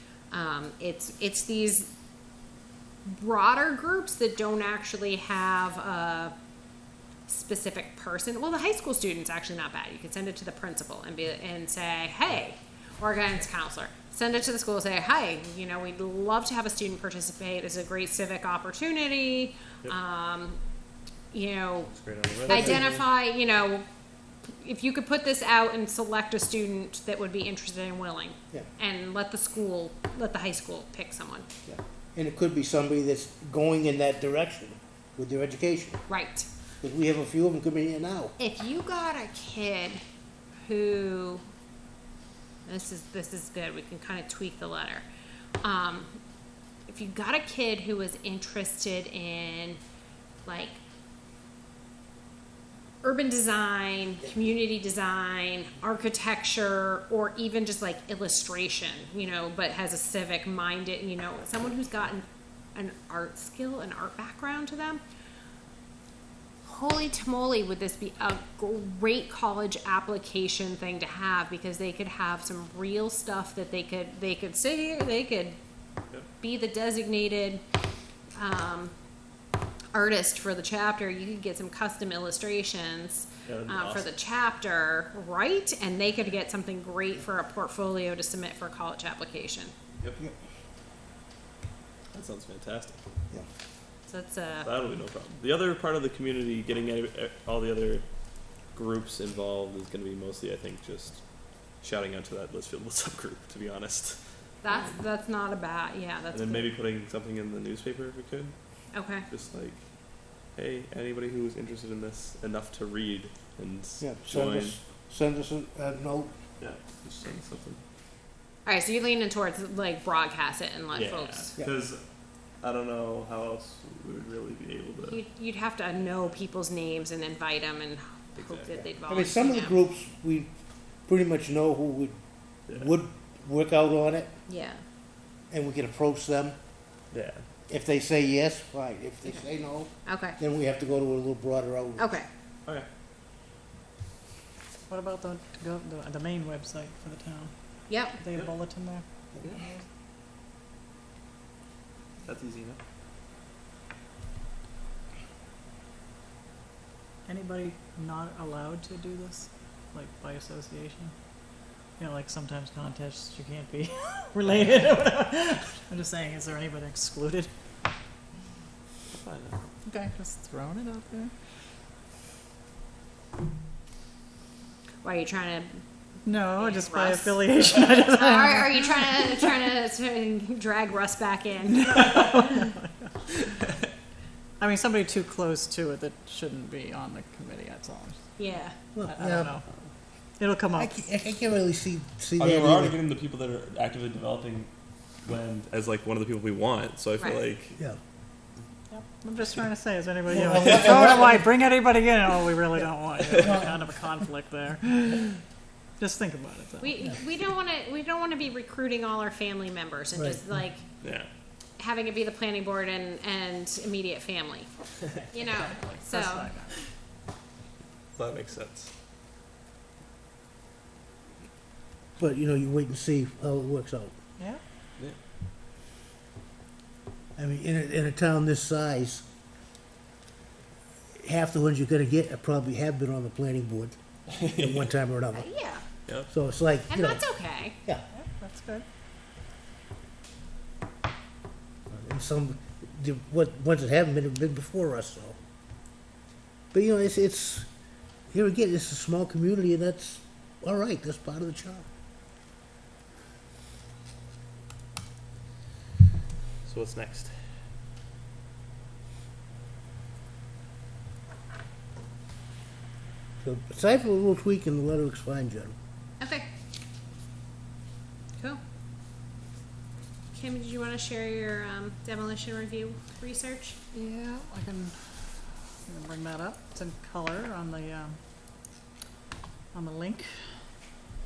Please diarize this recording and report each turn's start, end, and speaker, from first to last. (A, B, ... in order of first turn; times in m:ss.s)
0:00.3-0:01.9 A
0:03.0-0:06.3 A
0:07.3-0:20.6 A
0:21.3-0:21.9 A
0:21.9-0:23.0 B
0:22.4-0:23.8 A
0:22.5-0:22.8 C
0:24.6-0:31.4 A
0:31.6-0:36.0 C
0:36.1-0:36.5 A
0:36.8-0:38.4 C
0:38.4-0:40.0 A
0:40.6-0:41.4 A
0:42.6-0:45.0 A
0:45.6-0:46.1 A
0:46.9-0:49.8 A
0:50.4-0:50.8 A
0:53.0-1:05.0 A
1:06.6-1:15.6 A
1:16.4-1:17.6 A
1:18.4-1:18.9 A
1:19.9-1:29.7 A
1:23.4-1:24.1 B
1:32.1-1:33.0 B
1:34.1-1:34.7 A
1:34.6-1:38.0 B
1:38.7-1:41.2 B
1:41.8-1:44.2 B
1:44.6-1:46.7 A
1:46.3-1:48.5 B
1:48.9-1:49.2 A
1:49.3-1:49.8 B
1:50.5-1:54.8 B
1:54.0-1:56.3 C
1:56.6-1:57.8 B
1:58.6-2:01.5 A
2:00.9-2:02.0 B
2:02.6-2:05.2 B
2:05.0-2:09.8 A
2:08.3-2:08.9 B
2:09.1-2:10.5 C
2:11.0-2:12.2 C
2:12.7-2:14.3 C
2:14.5-2:14.8 A
2:15.5-2:16.5 C
2:17.1-2:17.4 B
2:17.7-2:22.1 C
2:20.0-2:20.4 A
2:22.0-2:22.3 A
2:24.9-2:29.8 D
2:27.9-2:28.2 A
2:32.2-2:32.8 B
2:37.2-2:41.1 D
2:42.0-2:47.5 D
2:49.1-2:49.6 B
2:49.8-2:51.3 D
2:55.0-2:55.8 A
2:56.2-2:59.2 D
2:56.5-3:02.6 A
3:01.7-3:03.1 D
3:04.6-3:08.4 D
3:08.4-3:08.8 A
3:08.9-3:09.5 C
3:09.0-3:09.6 D
3:10.4-3:10.9 D
3:10.7-3:12.9 C
3:12.4-3:14.7 B
3:15.2-3:17.8 B
3:18.9-3:25.4 D
3:20.3-3:21.4 C
3:23.2-3:23.7 B
3:26.0-3:27.1 D
3:26.8-3:30.8 A
3:30.1-3:30.4 C
3:31.0-3:31.3 B
3:31.8-3:34.7 A
3:35.3-3:36.5 A
3:35.3-3:36.8 D
3:38.1-3:38.9 B
3:42.2-3:44.1 C
3:47.4-3:49.2 C
3:51.2-3:55.5 C
3:54.3-3:54.8 B
3:55.3-3:55.8 A
3:56.3-3:57.2 C
3:56.9-3:57.8 A
3:58.1-3:58.8 D
4:01.9-4:05.4 C
4:06.7-4:07.7 C
4:08.3-4:11.8 C
4:16.6-4:17.4 B
4:23.4-4:25.7 C
4:26.2-4:26.5 A
4:30.3-4:33.8 A
4:33.9-4:34.9 D
4:35.8-4:38.2 D
4:39.7-4:40.3 D